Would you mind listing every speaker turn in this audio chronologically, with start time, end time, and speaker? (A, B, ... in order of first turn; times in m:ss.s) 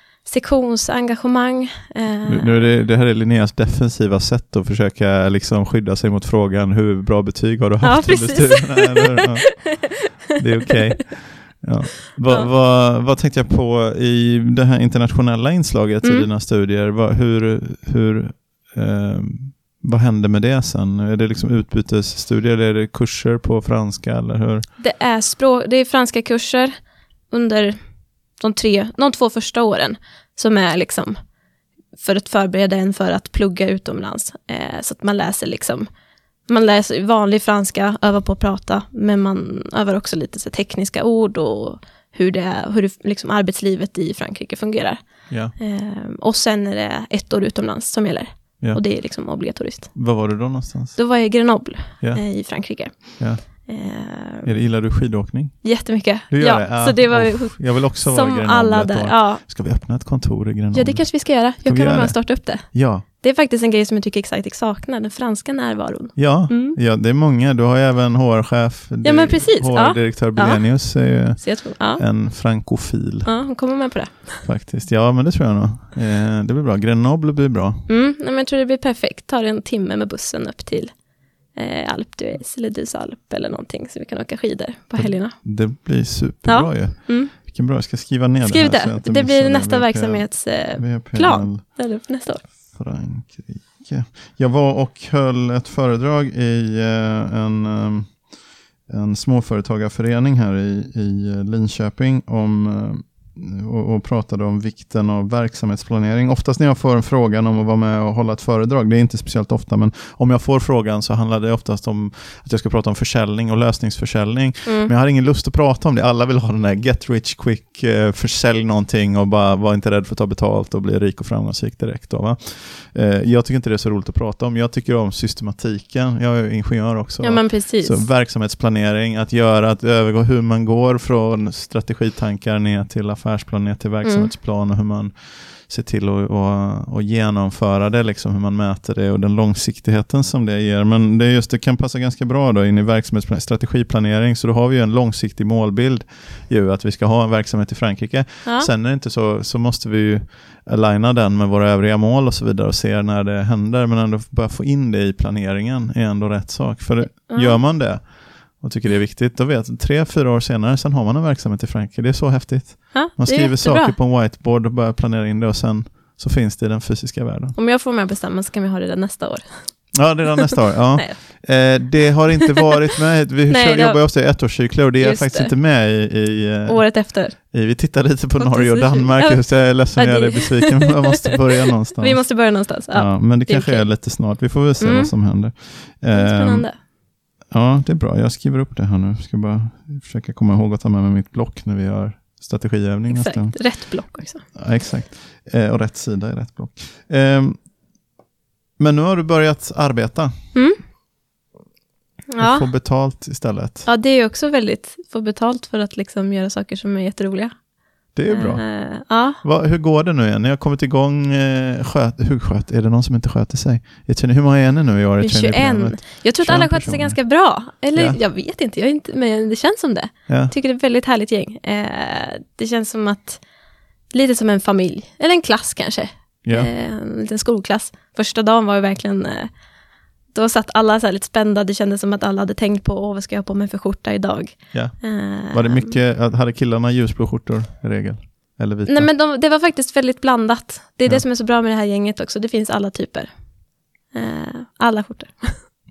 0:00.2-0:02.7 A
0:02.3-0:24.7 B
0:07.8-0:09.5 A
0:12.2-0:12.5 A
0:24.8-0:26.7 A
0:27.3-0:27.8 A
0:28.3-0:31.2 A
0:32.0-0:35.9 A
0:36.5-0:54.5 A
0:45.3-0:45.6 B
0:48.6-0:48.8 B
0:49.9-0:51.2 B
0:52.0-0:53.7 B
0:54.4-1:03.0 B
0:55.6-0:59.4 A
1:00.7-1:06.8 A
1:06.2-1:13.5 B
1:09.0-1:12.0 A
1:13.2-1:14.5 A
1:14.4-1:17.9 B
1:17.9-1:25.8 A
1:25.0-1:38.3 B
1:26.4-1:27.6 A
1:28.4-1:32.5 A
1:38.9-2:47.6 B
1:54.6-1:54.9 A
2:07.2-2:08.1 A
2:14.0-2:14.3 A
2:28.4-2:28.7 A
2:37.3-2:37.6 A
2:42.9-2:44.0 A
2:47.6-2:50.2 A
2:49.9-3:06.9 B
2:51.0-2:51.8 A
2:53.5-2:55.6 A
2:56.7-2:57.5 A
2:58.4-3:01.4 A
3:02.0-3:05.2 A
3:06.1-3:06.8 A
3:07.4-3:17.7 B
3:13.1-3:14.5 A
3:18.8-3:20.3 B
3:20.5-3:20.8 A
3:22.3-3:22.7 A
3:22.4-3:23.9 B
3:23.9-3:29.4 A
3:28.2-3:37.3 B
3:35.2-3:43.4 A
3:37.9-3:38.2 B
3:40.3-3:40.5 B
3:44.1-3:49.5 A
3:46.4-3:46.7 B
3:50.3-3:56.0 A
3:54.7-3:59.1 B
3:58.9-4:03.6 A
4:04.1-4:05.7 A